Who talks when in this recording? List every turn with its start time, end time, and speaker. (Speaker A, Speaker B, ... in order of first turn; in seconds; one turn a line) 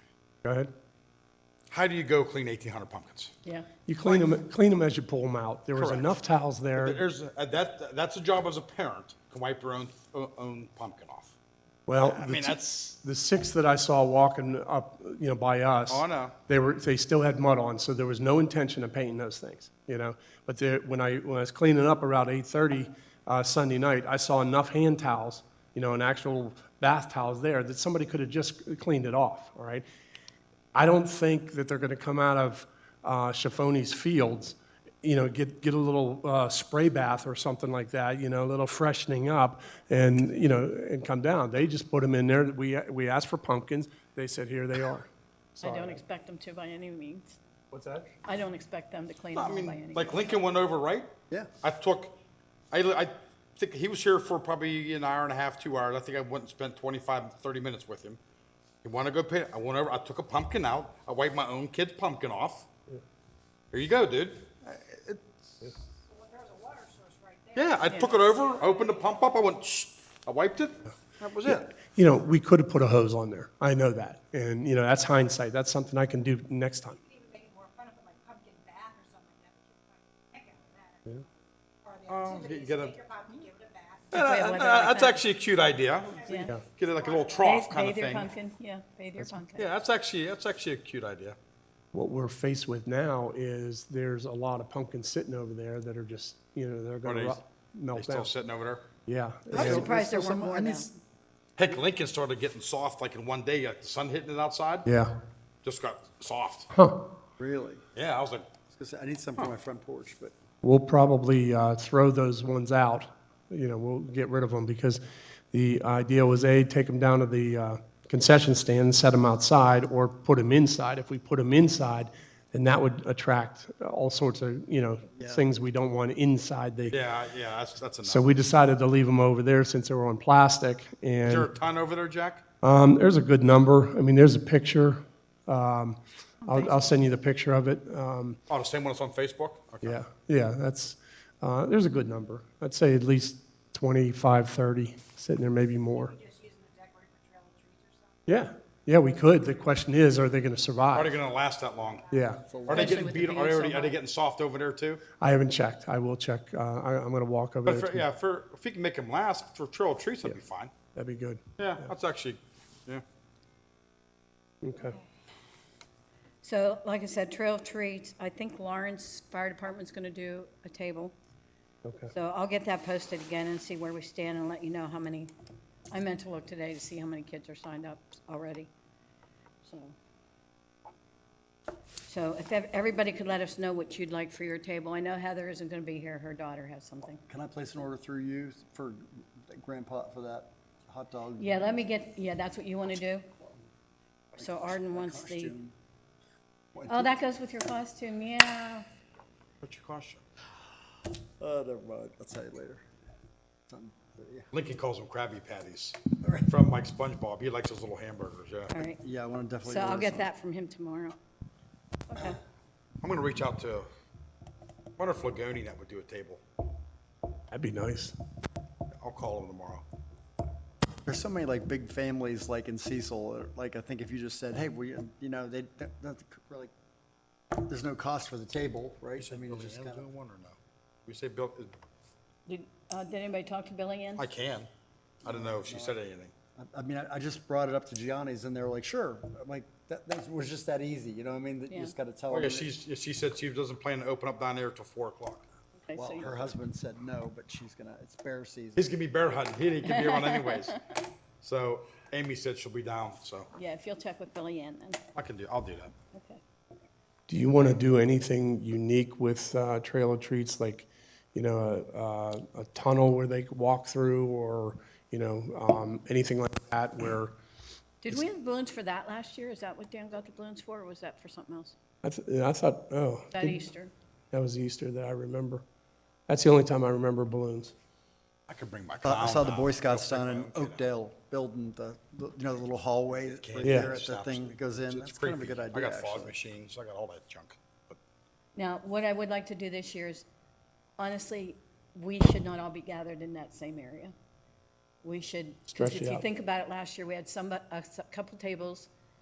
Speaker A: 0.4-0.7
Speaker B: 1.7-3.3
Speaker C: 3.4-3.8
Speaker A: 3.9-7.0
Speaker B: 4.0-4.3
Speaker B: 5.7-6.2
Speaker B: 6.8-11.3
Speaker A: 11.9-29.8
Speaker B: 12.0-12.6
Speaker B: 15.9-16.3
Speaker A: 30.7-46.0
Speaker C: 45.6-47.4
Speaker A: 47.7-48.1
Speaker C: 48.2-50.4
Speaker B: 49.3-51.1
Speaker B: 51.6-52.1
Speaker B: 52.7-58.2
Speaker B: 58.8-62.7
Speaker B: 63.7-65.2
Speaker D: 66.3-67.5
Speaker B: 67.5-71.7
Speaker C: 67.9-68.2
Speaker A: 71.4-77.0
Speaker D: 77.2-79.5
Speaker D: 80.3-80.7
Speaker B: 82.1-83.1
Speaker D: 83.0-84.0
Speaker B: 84.1-88.3
Speaker C: 84.1-85.2
Speaker C: 86.2-86.5
Speaker C: 87.4-89.7
Speaker B: 89.5-91.4
Speaker A: 91.9-98.3
Speaker B: 97.0-97.4
Speaker B: 97.9-98.8
Speaker A: 99.0-99.9
Speaker E: 99.5-100.9
Speaker C: 99.6-100.9
Speaker B: 101.6-104.9
Speaker A: 104.8-105.1
Speaker B: 105.6-106.7
Speaker A: 106.7-107.0
Speaker E: 107.4-107.8
Speaker B: 107.9-108.5
Speaker E: 108.7-110.3
Speaker A: 110.6-115.0
Speaker A: 115.5-127.0
Speaker E: 125.2-125.5
Speaker B: 126.9-128.3
Speaker A: 128.0-131.5
Speaker B: 131.2-132.4
Speaker A: 132.6-138.4
Speaker C: 136.4-136.9
Speaker B: 138.5-140.0
Speaker A: 139.8-146.2
Speaker D: 146.2-147.8
Speaker A: 148.2-151.2
Speaker B: 150.9-152.0
Speaker A: 152.1-152.6
Speaker C: 152.6-153.9
Speaker B: 152.7-155.0
Speaker A: 155.2-158.1
Speaker B: 157.6-160.7
Speaker A: 160.9-161.9
Speaker B: 161.6-163.0
Speaker A: 164.6-164.9
Speaker C: 166.4-171.1
Speaker A: 171.8-172.1
Speaker C: 172.1-175.3
Speaker C: 175.9-178.7
Speaker C: 179.6-179.9
Speaker C: 182.1-187.2
Speaker E: 187.3-191.7
Speaker C: 191.4-193.3
Speaker C: 194.3-195.6
Speaker E: 194.4-195.7
Speaker E: 196.7-197.1
Speaker C: 196.9-198.8
Speaker B: 199.6-200.2
Speaker E: 201.4-202.8
Speaker E: 203.7-204.5
Speaker B: 204.5-208.7
Speaker E: 206.2-206.5
Speaker C: 208.7-209.0
Speaker E: 209.0-210.3
Speaker C: 209.6-211.2
Speaker C: 212.1-212.4
Speaker B: 213.0-213.9
Speaker B: 215.0-216.4
Speaker A: 217.5-218.1
Speaker B: 219.0-219.8
Speaker E: 221.1-226.7
Speaker E: 227.6-230.1
Speaker B: 229.2-231.7
Speaker C: 232.5-234.2
Speaker B: 234.2-234.7
Speaker E: 235.2-236.0
Speaker B: 235.2-236.3
Speaker E: 236.6-242.7
Speaker B: 242.3-245.4
Speaker C: 245.8-246.5
Speaker E: 245.9-248.9
Speaker B: 248.8-250.8
Speaker C: 249.8-250.7
Speaker B: 251.4-253.5
Speaker C: 253.5-255.0
Speaker B: 255.1-255.9
Speaker C: 256.1-256.4
Speaker A: 257.3-267.3
Speaker C: 268.0-271.7
Speaker A: 272.0-273.6
Speaker C: 273.3-273.9
Speaker A: 274.3-275.6
Speaker A: 276.3-277.7
Speaker B: 278.5-280.8
Speaker E: 279.0-286.4
Speaker B: 283.3-288.0
Speaker A: 283.6-283.9
Speaker C: 288.6-290.2
Speaker C: 291.0-294.1
Speaker C: 295.0-298.9
Speaker A: 295.7-296.2